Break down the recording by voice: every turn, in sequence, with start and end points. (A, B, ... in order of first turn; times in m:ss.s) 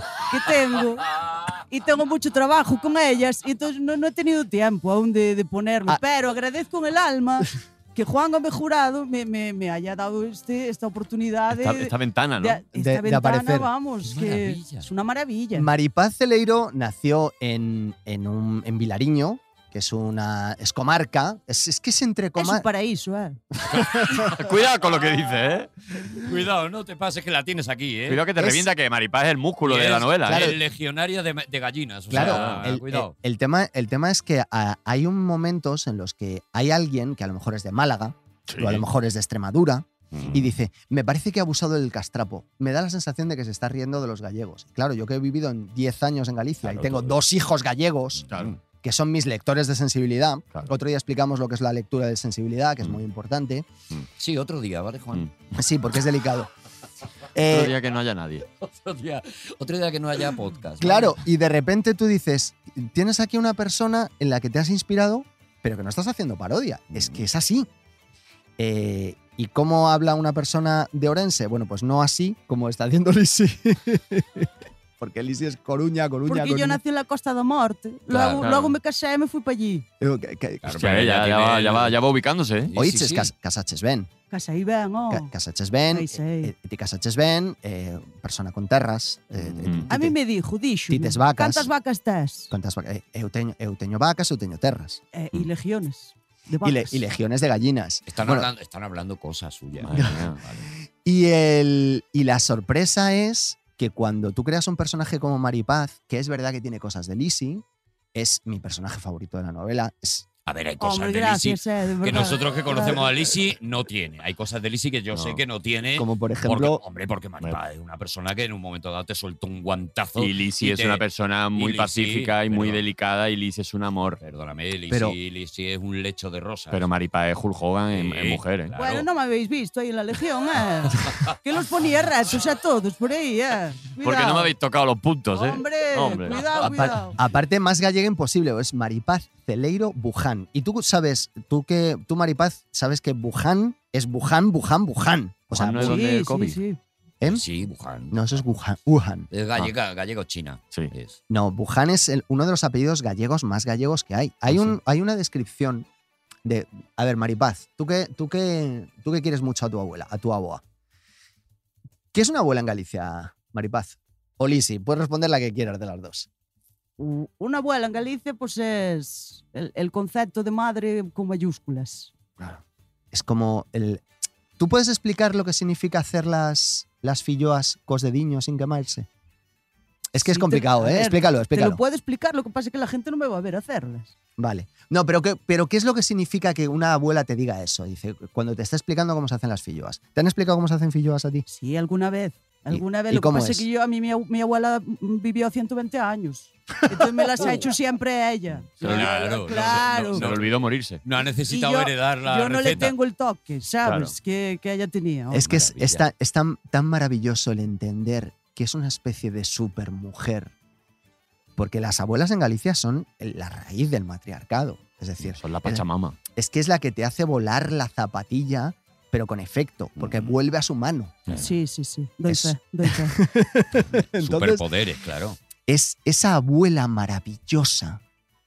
0:00.3-0:15.7 A
0:11.5-0:12.6 B
0:12.7-0:13.7 C
0:14.0-0:14.9 D
0:15.5-0:22.7 C
0:22.4-0:23.4 A
0:23.6-0:26.2 B
0:23.7-0:24.2 D
0:26.2-0:28.2 D
0:28.1-0:30.6 B
0:28.4-0:28.7 C
0:29.6-0:33.1 D
0:30.2-0:30.6 C
0:32.1-0:48.3 C
0:32.1-0:32.6 B
0:38.5-0:38.8 B
0:40.1-0:40.5 D
0:46.6-0:47.1 D
0:48.2-0:48.6 D
0:48.3-0:48.5 B
0:48.8-0:53.7 C
0:54.2-0:55.3 D
0:55.5-0:56.5 C
0:57.3-0:57.7 C
0:57.4-0:58.5 B
0:58.6-1:01.2 D
1:00.8-1:07.7 C
1:08.6-1:16.8 C
1:16.2-1:19.8 A
1:18.1-1:18.5 D
1:18.4-1:18.7 B
1:20.0-1:20.8 C
1:20.6-1:22.0 D
1:20.7-1:22.7 B
1:22.6-1:23.3 D
1:22.8-1:24.1 C
1:24.3-1:25.3 A
1:25.1-1:30.2 C
1:25.9-1:26.5 A
1:29.3-1:29.9 D
1:29.9-1:32.5 A
1:30.9-1:31.7 C
1:32.5-1:35.0 C
1:35.1-1:37.0 A
1:36.6-1:38.5 C
1:38.1-1:40.6 D
1:39.8-1:40.4 B
1:39.9-1:40.2 C
1:41.0-1:50.3 C
1:50.4-2:01.0 D
1:50.8-1:53.1 A
1:55.1-1:55.4 B
1:56.0-1:56.8 C
2:00.2-2:04.2 B
2:01.6-2:02.8 D
2:04.2-2:06.8 D
2:04.9-2:05.2 C
2:06.7-2:08.7 B
2:07.9-2:09.0 D
2:08.8-2:14.5 A
2:14.0-2:17.0 B
2:15.3-2:17.2 A
2:16.2-2:16.7 D
2:17.1-2:26.0 C
2:25.5-2:26.6 B
2:25.8-2:26.8 A
2:27.3-2:28.2 D
2:28.1-2:29.3 C
2:29.3-2:31.2 D
2:31.3-2:35.9 C
2:36.4-2:40.6 C
2:42.1-2:46.3 C
2:47.0-2:52.1 A
2:53.1-2:54.0 C
2:54.6-2:59.1 C
3:00.1-3:01.8 C
3:00.2-3:04.1 A
3:04.4-3:11.4 C
3:11.5-3:20.3 A
3:12.7-3:13.7 C
3:18.8-3:21.0 B
3:18.8-3:22.9 D
3:21.5-3:25.4 A
3:23.8-3:24.1 B
3:25.3-3:30.5 C
3:25.4-3:26.0 D
3:31.6-3:41.3 C
3:35.2-3:36.2 B
3:40.0-3:40.3 D
3:41.3-3:41.5 B
3:41.4-3:43.2 A
3:42.3-3:44.6 C
3:43.8-3:45.4 D
3:45.7-3:48.0 C